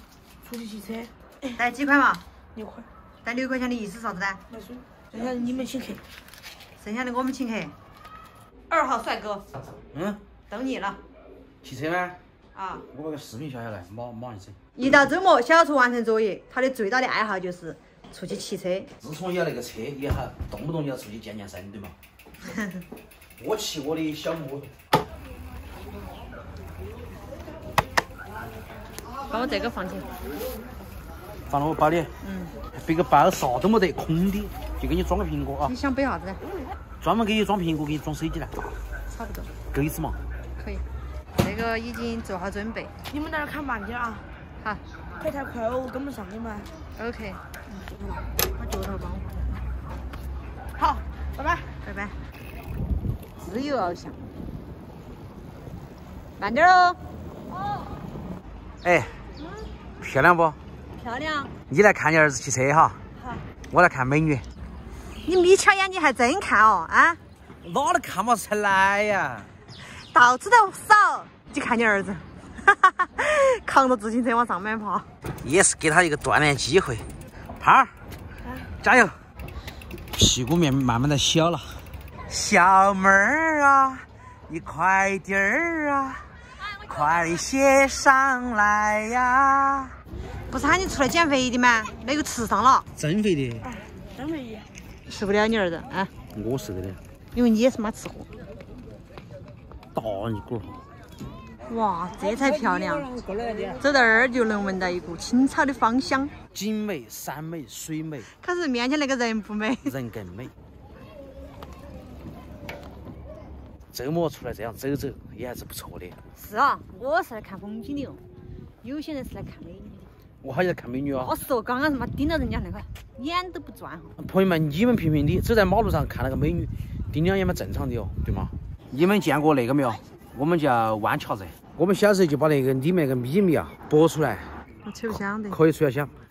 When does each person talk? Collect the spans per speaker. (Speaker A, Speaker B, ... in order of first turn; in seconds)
Speaker A: 0.4-1.5, 2.5-2.9, 4.5-6.0, 43.1-44.2, 45.2-46.7, 50.8-51.6, 93.6-94.7
Speaker B: 1.5-2.2, 3.2-4.4, 6.8-7.7, 8.7-9.4, 10.5-11.0, 12.5-12.8, 14.8-18.9, 29.3-30.1, 32.2-32.5, 35.6-36.4, 39.1-39.5, 40.6-40.8, 41.4-42.9, 47.0-47.4, 48.5-49.6, 51.8-52.2, 53.4-54.3, 56.4-57.0, 61.0-61.5, 65.2-67.2, 69.9-75.1, 90.5-92.8, 95.0-96.1, 97.3-98.3, 101.7-103.1, 103.7-106.3, 108.3-109.9, 116.3-118.2, 118.8-120.0, 121.2-124.2, 134.8-135.6
Speaker C: 9.9-10.2, 11.6-12.2, 12.9-14.6, 19.0-21.9, 23.4-24.7, 31.5-32.1, 32.7-35.7, 37.0-38.7, 39.7-40.2, 58.8-59.1, 60.0-60.6, 61.7-63.0, 63.7-64.4, 67.6-69.5, 75.4-77.1, 77.6-77.9, 78.8-79.2, 80.1-86.2, 86.8-89.9, 93.0-93.7, 96.3-97.0, 99.9-100.8, 106.5-108.3, 109.8-110.5, 113.9-116.2, 120.4-121.3, 124.2-134.5, 135.5-136.1